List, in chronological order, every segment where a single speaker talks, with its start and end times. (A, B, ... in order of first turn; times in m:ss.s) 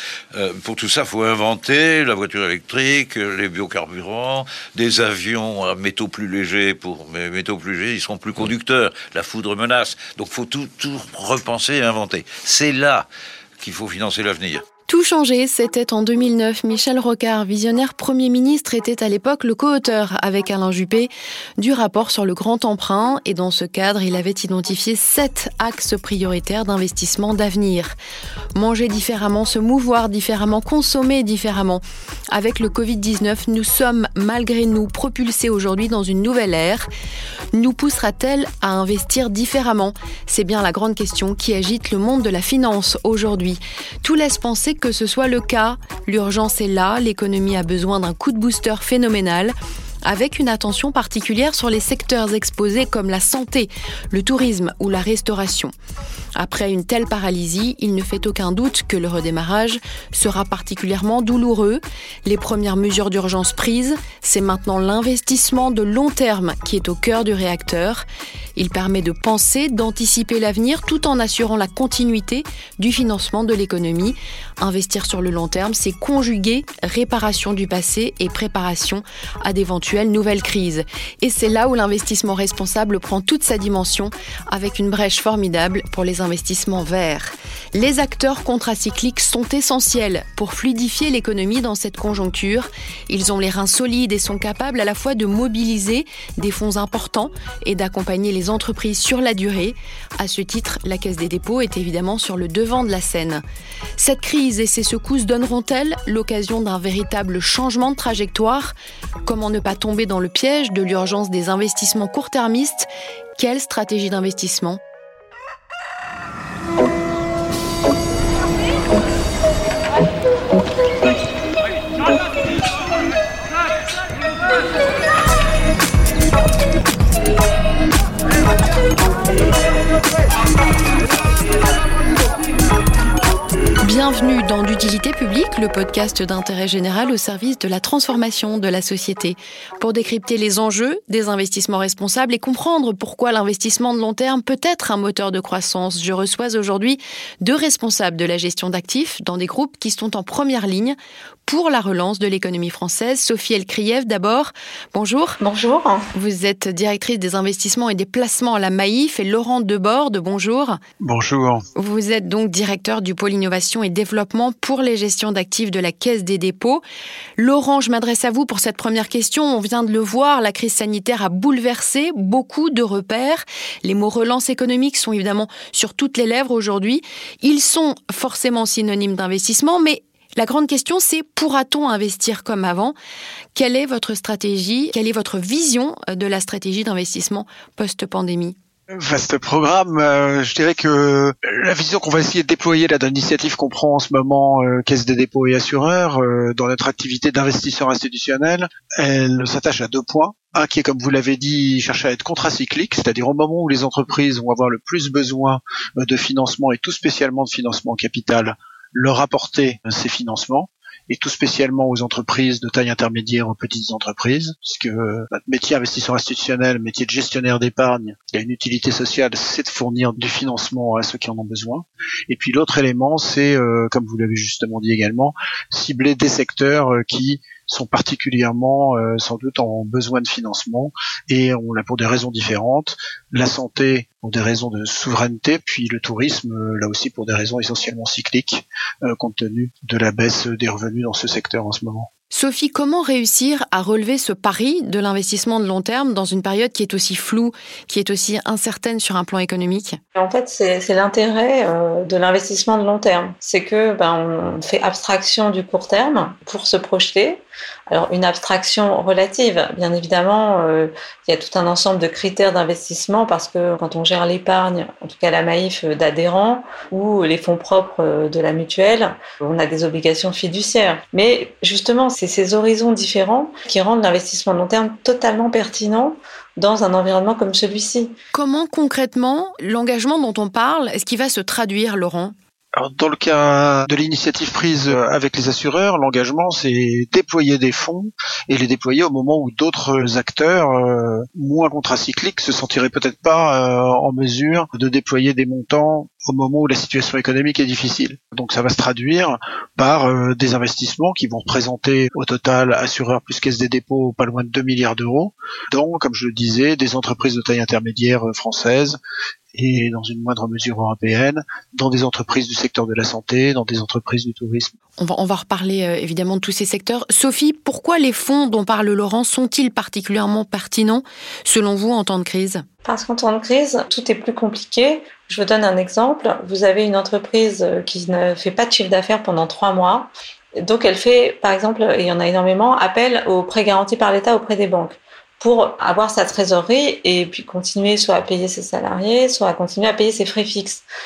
0:00.3-0:14.6 A
0:14.9-0:28.0 B
0:28.5-0:36.9 B
0:37.5-0:55.7 B
0:56.4-1:43.4 B
1:44.0-1:54.8 B
2:13.8-2:35.4 B
2:35.4-2:36.1 C
2:36.1-2:40.8 B
2:41.0-2:41.6 D
2:41.8-2:46.8 B
2:47.4-3:03.0 B
3:03.5-3:08.6 B
3:09.0-4:02.1 D
4:02.3-4:10.0 B
4:10.2-4:38.1 C
4:38.3-4:42.3 B
4:42.8-5:09.0 D
5:09.5-5:14.7 D
5:15.0-5:22.6 B
5:22.8-5:40.8 C